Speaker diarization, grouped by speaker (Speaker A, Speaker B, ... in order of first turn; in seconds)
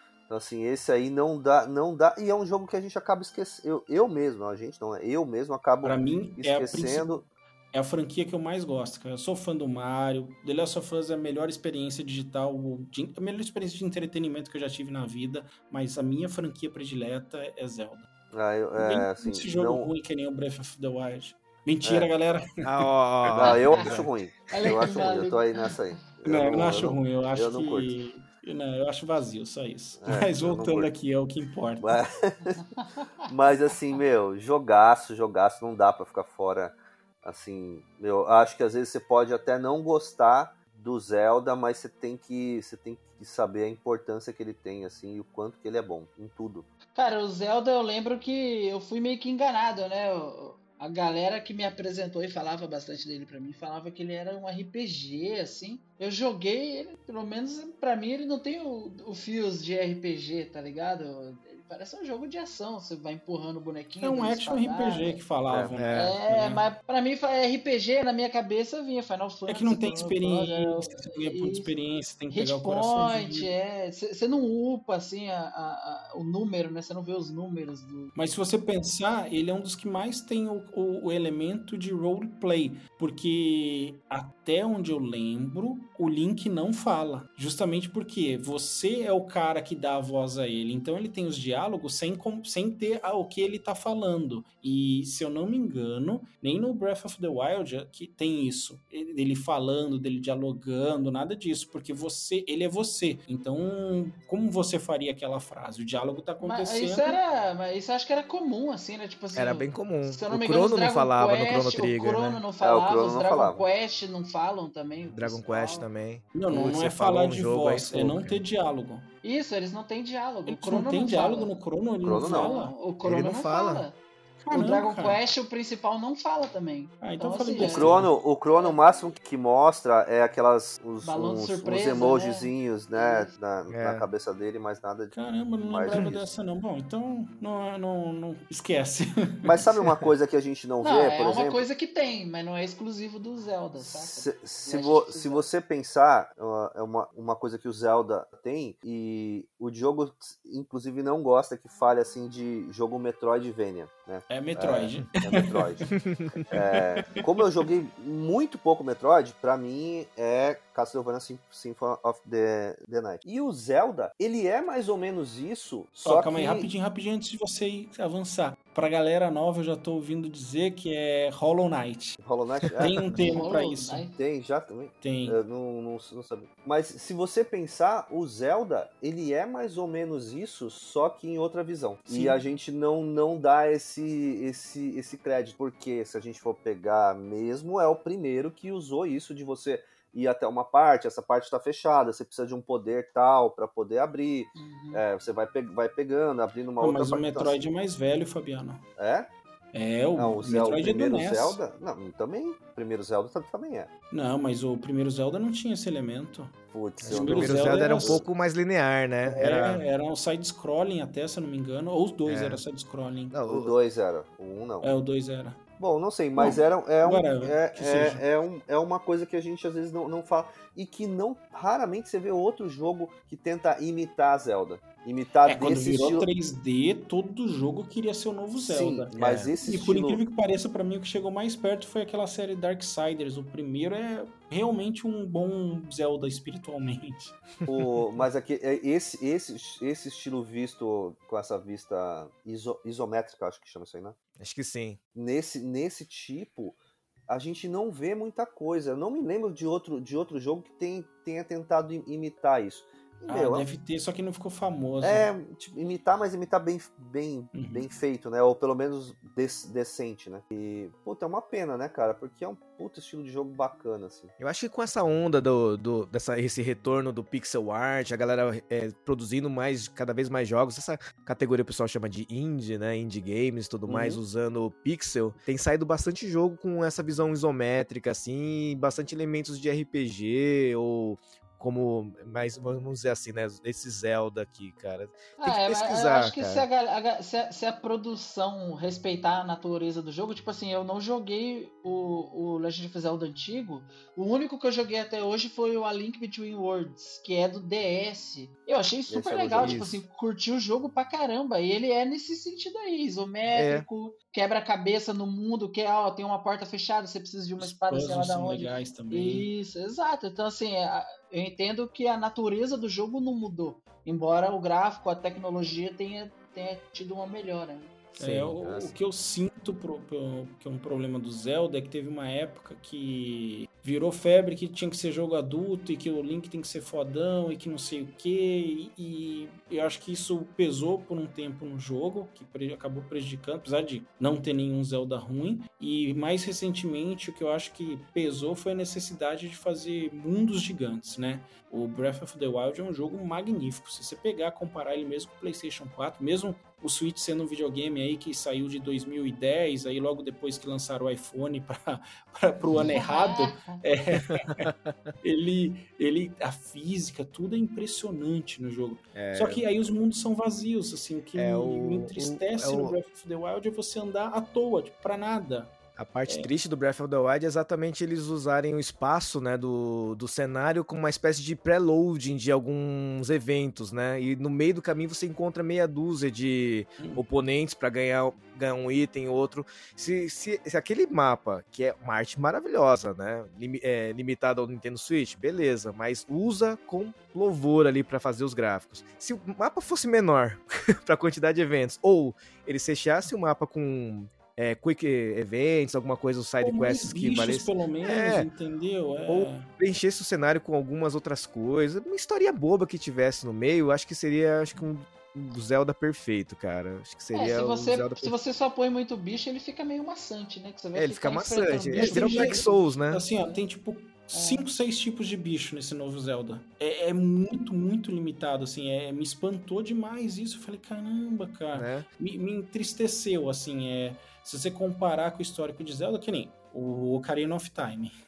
Speaker A: 0.3-7.2, 18.3-19.9, 21.8-22.1, 23.3-27.9, 30.0-30.9, 31.8-32.6, 33.2-46.7, 112.6-113.6, 122.0-122.5, 127.6-136.3, 139.4-141.7, 143.8-155.8, 156.5-166.7, 172.2-173.4, 174.1-197.6, 199.0-199.3, 200.2-203.9, 206.7-208.2, 213.5-214.9, 215.8-226.3, 228.6-230.2, 237.7-244.2, 245.1-246.8, 247.3-253.7, 255.0-264.3, 299.1-299.8, 318.6-318.9
Speaker B: 5.8-7.2, 7.7-18.1, 18.7-22.5, 26.2-32.0, 64.0-66.6, 69.5-73.5, 78.1-107.2, 116.3-119.1, 120.5-122.7, 124.4-125.2, 127.0-128.1, 135.1-140.0, 154.3-155.9, 166.0-172.2, 172.8-174.0, 175.0-175.4, 182.1-182.4, 196.8-198.8, 199.7-201.6, 204.1-206.5, 207.1-208.2, 209.3-213.4, 214.8-215.6, 216.3-218.2, 225.4-229.1, 229.6-237.4, 253.3-255.3, 257.5-257.9, 273.9-274.2, 307.6-309.5, 318.2-354.7, 355.2-365.7, 396.6-399.7, 411.9-428.1
Speaker C: 22.6-24.1, 65.8-66.1, 109.3-112.4, 115.1-118.4, 123.0-123.8, 133.7-134.1, 156.1-156.3, 207.0-209.8, 212.2-212.6, 213.3-213.7, 229.2-229.5, 244.4-245.0, 264.4-286.6, 299.6-300.0, 303.5-303.9, 318.2-318.5, 354.3-355.1, 359.1-359.6, 361.4-362.9, 366.0-398.5, 399.3-408.3, 410.9-413.2, 421.7-422.1
Speaker D: 24.5-25.4, 46.9-65.2, 65.9-71.7, 72.3-78.1, 106.4-115.9, 119.2-121.5, 122.1-124.0, 124.5-128.0, 128.5-128.8, 131.0-133.3, 140.8-145.4, 173.2-174.2, 194.6-195.0, 285.4-317.9, 352.9-353.8, 407.3-412.7, 414.3-414.6